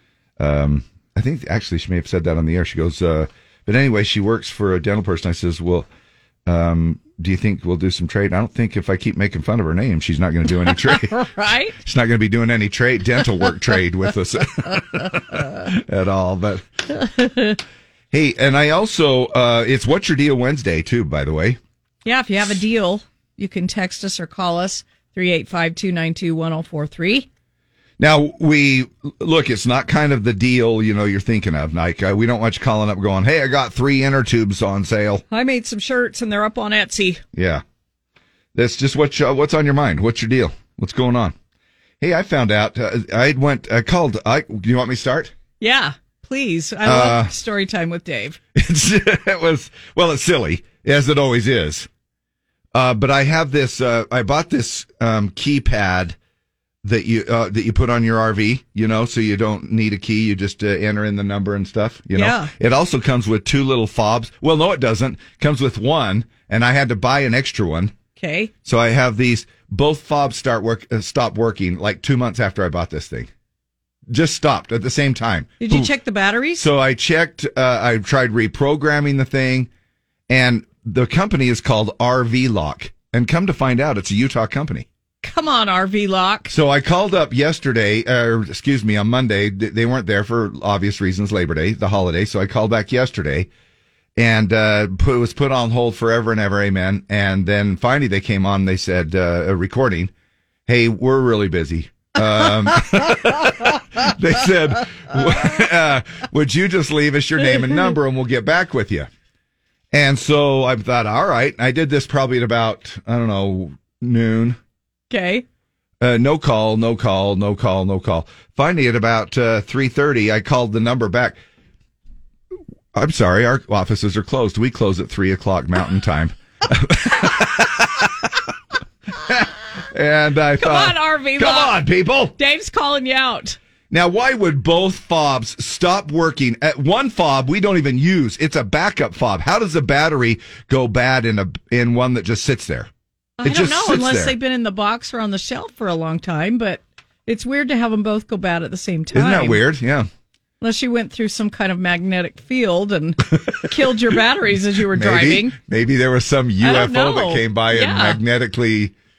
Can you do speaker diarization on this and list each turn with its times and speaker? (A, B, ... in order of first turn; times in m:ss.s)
0:00.4-0:05.9 A
0:06.5-0:11.3 A
0:10.7-0:11.8 B
0:11.8-0:16.7 A
0:17.1-0:17.6 B
0:18.1-0:21.6 A
0:22.0-0:27.3 B
0:28.0-0:35.2 A
0:35.3-0:37.2 B
0:37.3-0:37.6 A
0:38.6-0:41.4 A
0:42.0-0:45.3 A
0:45.6-0:48.4 B
0:46.8-0:47.3 A
0:48.6-0:51.9 A
0:52.7-0:56.2 A
0:56.8-1:07.9 A
1:02.2-1:02.5 B
1:08.2-1:08.5 B
1:08.6-1:13.3 A
1:14.1-1:15.9 A
1:15.6-1:16.7 B
1:16.6-1:19.7 A
1:20.3-1:24.9 A
1:25.2-1:26.5 B
1:26.5-1:33.5 A
1:34.2-1:40.1 A
1:40.7-1:49.1 A
1:49.9-1:54.6 A
1:55.1-1:55.4 B
1:56.0-2:01.4 A
2:02.9-2:08.3 A
2:09.3-2:12.3 A
2:10.6-2:11.8 B
2:12.4-2:13.6 B
2:13.9-2:22.9 A
2:23.4-2:29.6 B
2:23.4-2:24.4 A
2:29.1-2:30.1 A
2:30.6-2:35.6 B
2:34.9-2:38.9 A
2:36.6-2:38.2 B